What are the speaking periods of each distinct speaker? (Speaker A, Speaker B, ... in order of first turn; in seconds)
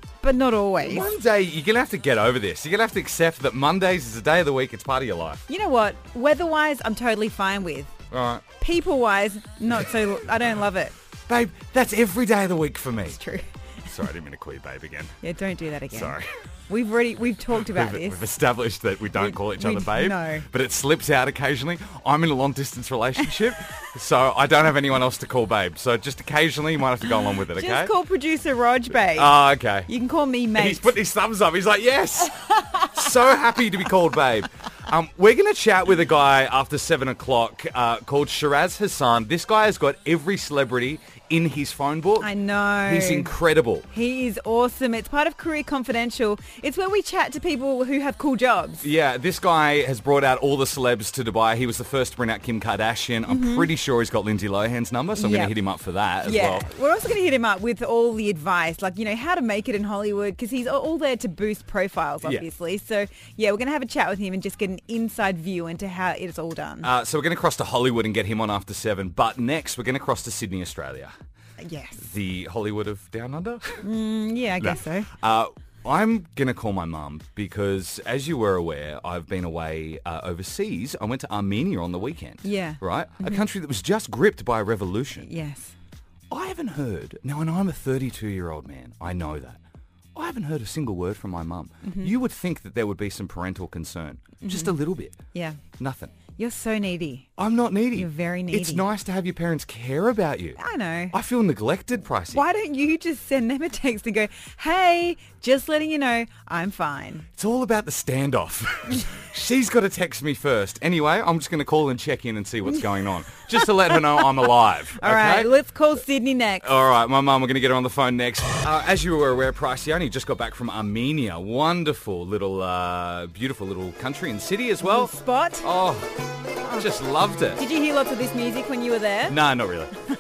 Speaker A: 0.2-1.1, 5.5-7.9, 8.6-11.0, 13.1-13.5, 15.2-16.2, 16.7-18.2, 19.2-20.5, 27.5-30.9, 42.2-43.3, 43.9-48.9, 53.3-53.7, 55.2-55.5, 56.2-66.9, 71.6-72.1, 73.8-75.1, 82.4-83.5, 85.2-85.8, 91.8-92.1, 94.4-95.6, 96.4-97.3, 98.0-98.9, 100.6-101.2, 102.3-107.3, 115.0-116.7, 124.8-125.7, 127.6-129.4
Speaker B: 0.8-5.4, 8.1-8.4, 11.3-13.2, 13.9-15.2, 15.9-16.3, 17.5-27.9, 29.1-29.9, 30.6-42.3, 42.9-43.9, 48.8-56.7, 66.8-71.1, 72.0-73.8, 74.6-85.3, 86.3-89.6, 90.2-95.2, 95.8-96.1, 97.4-100.6, 101.1-102.5, 107.4-115.5, 116.6-126.1, 126.8-127.6, 129.3-129.9